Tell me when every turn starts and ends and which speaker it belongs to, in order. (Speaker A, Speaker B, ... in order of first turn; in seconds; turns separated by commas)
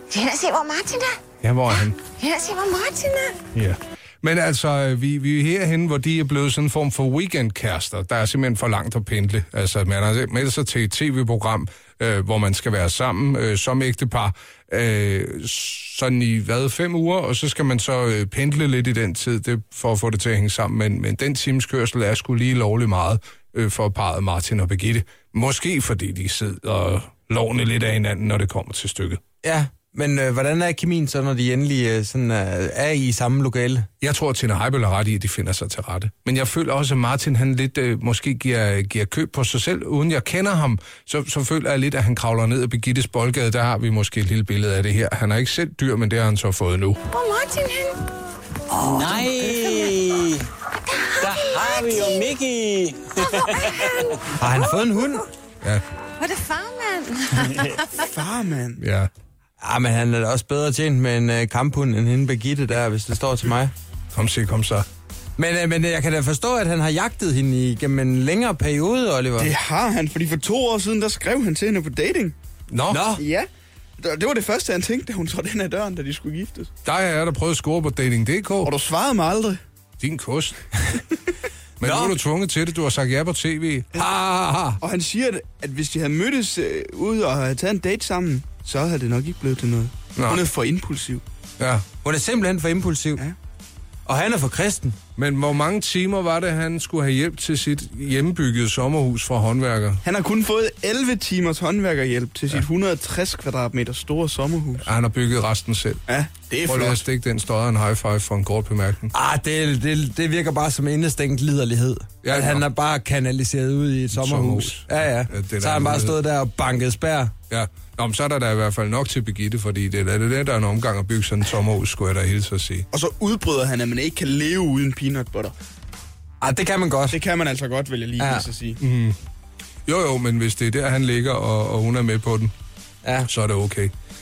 Speaker A: 1.4-2.0, Speaker A: 3.5-29.2, Speaker B: 29.4-33.9, Speaker A: 34.0-47.0, Speaker C: 47.1-47.9, Speaker D: 48.7-50.4, Speaker D: 51.2-54.1, Speaker B: 54.4-55.2, Speaker C: 56.2-57.5, Speaker E: 58.0-58.8, Speaker A: 58.8-59.1, Speaker B: 59.6-63.7, Speaker A: 64.1-64.8, Speaker B: 65.4-69.5, Speaker E: 69.4-72.3, Speaker A: 72.7-73.0, Speaker B: 72.9-73.2, Speaker E: 73.2-73.5, Speaker E: 74.0-76.7, Speaker A: 76.8-78.7, Speaker E: 78.6-79.6, Speaker A: 80.0-80.8, Speaker A: 81.8-84.8, Speaker B: 81.8-82.2, Speaker E: 84.8-91.2, Speaker A: 90.2-90.4, Speaker A: 91.6-91.8, Speaker B: 92.0-93.2, Speaker B: 94.0-95.0, Speaker A: 95.2-100.0, Speaker E: 100.0-104.9, Speaker A: 104.8-106.0, Speaker E: 106.1-107.0, Speaker A: 106.7-109.1, Speaker B: 109.1-117.3, Speaker A: 112.2-112.6, Speaker A: 114.1-116.2, Speaker A: 117.5-122.9, Speaker E: 122.9-125.5, Speaker B: 126.4-127.2, Speaker E: 127.1-128.8, Speaker B: 128.2-128.5, Speaker A: 128.8-129.2, Speaker A: 129.9-132.5, Speaker B: 133.0-133.3, Speaker A: 133.3-133.9